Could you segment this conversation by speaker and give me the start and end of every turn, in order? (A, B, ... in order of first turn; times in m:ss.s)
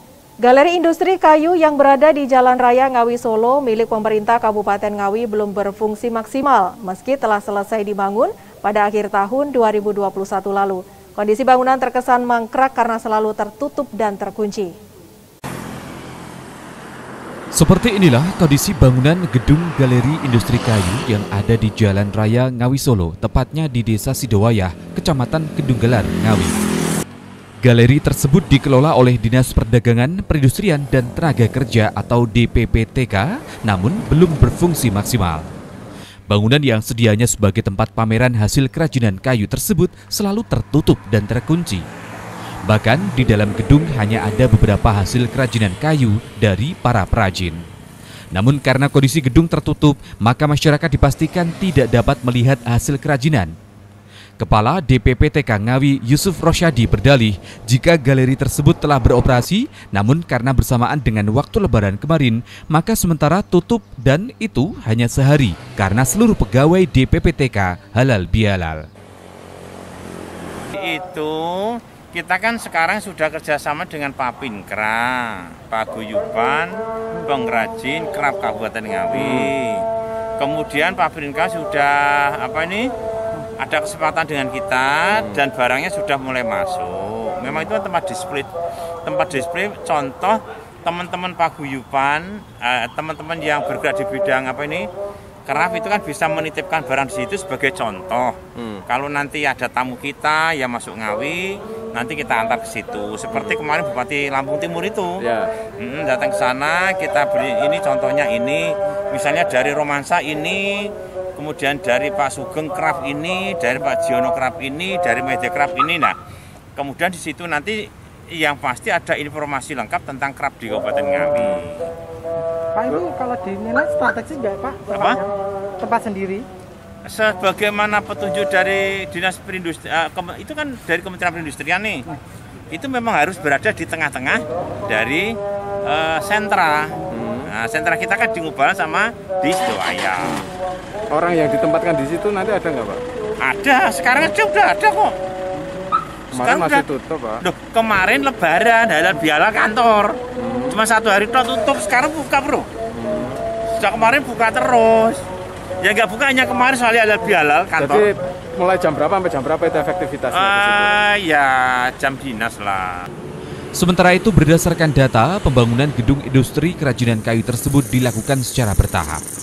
0:00.4-0:14.7 A
0:17.6-0:26.6 B
0:27.6-0:35.5 B
0:36.3-0:41.8 B
0:42.7-0:47.6 B
0:48.3-0:53.5 B
0:54.4-1:08.8 B
1:10.8-1:16.7 C
1:17.2-1:19.9 C
1:19.1-1:19.5 D
1:20.4-1:22.9 C
1:23.6-1:28.5 C
1:25.1-1:25.4 D
1:29.0-1:34.8 C
1:35.5-1:45.2 C
1:38.6-1:38.8 D
1:43.3-1:43.6 D
1:45.2-1:45.5 D
1:45.8-1:56.2 C
1:56.8-2:01.9 C
2:02.8-2:05.3 E
2:04.9-2:05.2 C
2:05.8-2:06.5 E
2:07.0-2:12.1 C
2:12.7-2:15.3 C
2:15.9-2:16.9 C
2:17.1-2:17.5 D
2:17.5-2:20.4 C
2:21.1-2:23.0 D
2:23.4-2:25.2 C
2:26.3-2:27.4 D
2:26.3-2:26.9 C
2:27.4-2:32.7 C
2:30.4-2:30.8 D
2:32.9-2:33.4 D
2:33.7-2:35.2 C
2:35.8-2:38.1 C
2:37.8-2:41.0 D
2:40.3-2:43.1 C
2:43.8-2:49.2 B